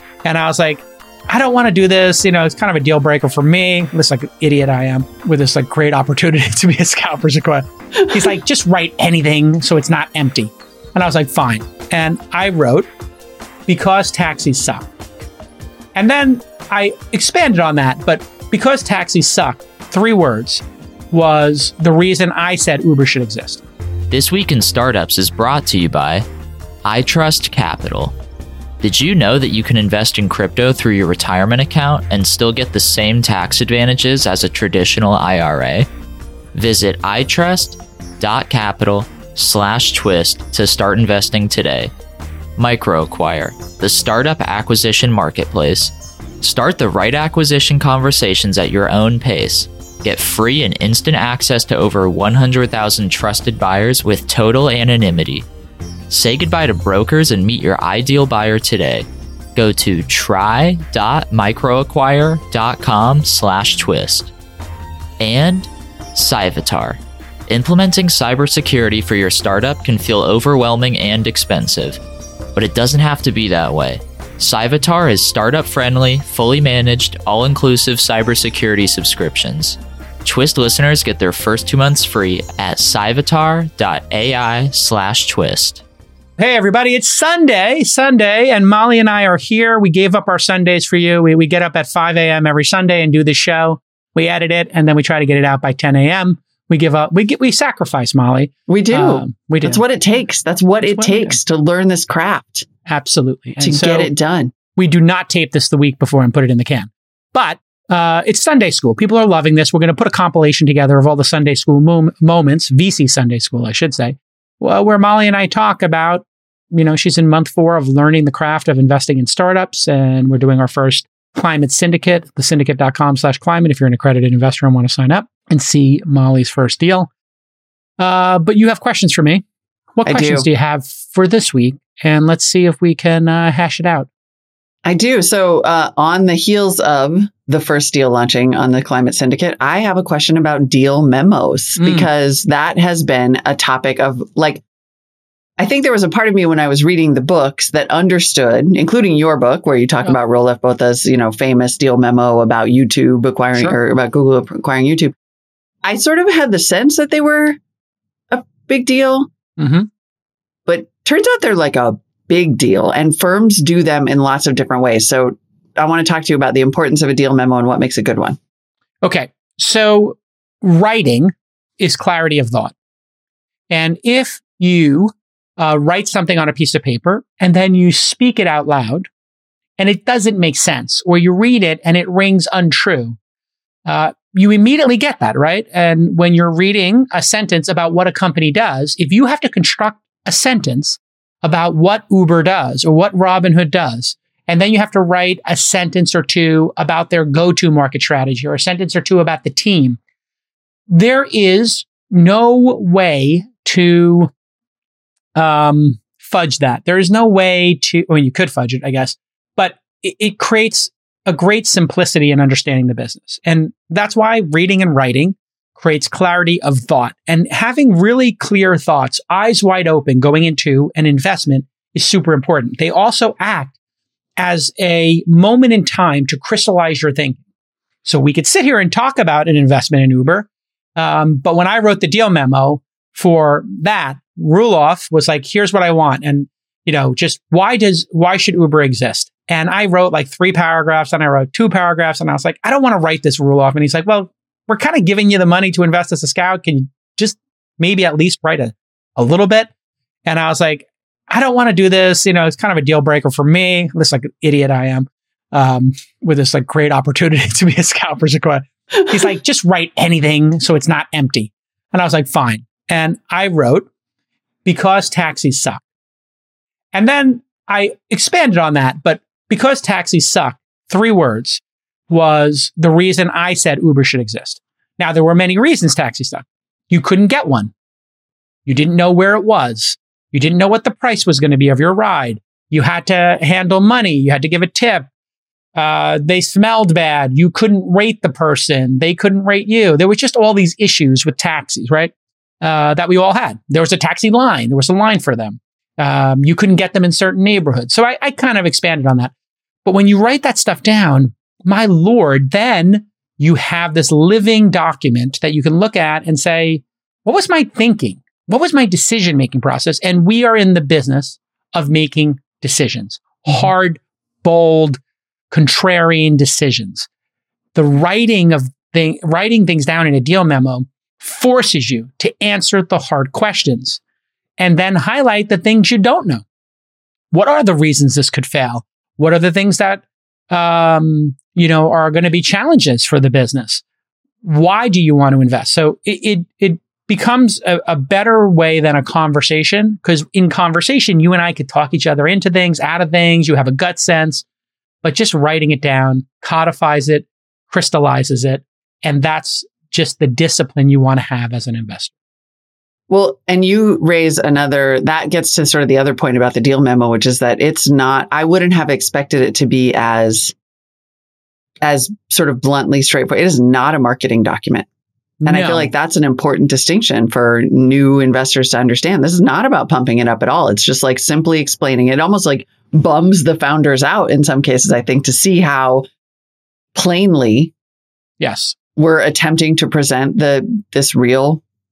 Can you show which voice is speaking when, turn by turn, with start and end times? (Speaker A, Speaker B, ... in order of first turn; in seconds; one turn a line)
Speaker A: 0.2-12.9
Speaker A: 13.7-14.8
Speaker A: 15.9-23.6
Speaker B: 24.1-26.2
Speaker B: 26.8-28.1
Speaker B: 28.8-35.9
Speaker B: 36.5-41.9
Speaker B: 42.6-55.5
Speaker B: 56.1-64.3
Speaker B: 65.2-72.0
Speaker B: 72.5-85.8
Speaker A: 86.4-99.8
Speaker C: 98.7-102.7
Speaker A: 100.8-101.4
Speaker A: 102.8-104.1
Speaker C: 103.6-104.5
Speaker A: 104.8-127.1
Speaker A: 128.0-129.4
Speaker A: 129.9-134.1
Speaker C: 130.0-130.5
Speaker C: 134.8-144.6
Speaker A: 141.8-142.1
Speaker C: 145.6-155.1
Speaker C: 155.8-157.6
Speaker C: 158.3-159.3
Speaker A: 159.6-159.9
Speaker C: 160.7-168.4
Speaker A: 169.0-172.7
Speaker A: 173.7-179.1
Speaker A: 179.8-183.2
Speaker A: 183.8-200.0
Speaker A: 200.9-204.3
Speaker A: 205.3-223.7
Speaker A: 224.4-227.4
Speaker A: 228.0-249.7
Speaker A: 250.2-263.9
Speaker A: 264.6-265.8
Speaker A: 266.9-277.7
Speaker A: 278.6-285.1
Speaker A: 285.7-299.3
Speaker A: 299.8-317.1
Speaker A: 317.7-324.0
Speaker A: 324.6-326.4
Speaker A: 327.3-333.8
Speaker A: 334.4-344.4
Speaker A: 345.0-352.1
Speaker C: 353.1-360.5
Speaker C: 361.8-364.9
Speaker A: 365.4-365.9
Speaker C: 365.4-376.1
Speaker C: 376.9-377.7
Speaker A: 378.4-378.7
Speaker C: 378.9-381.6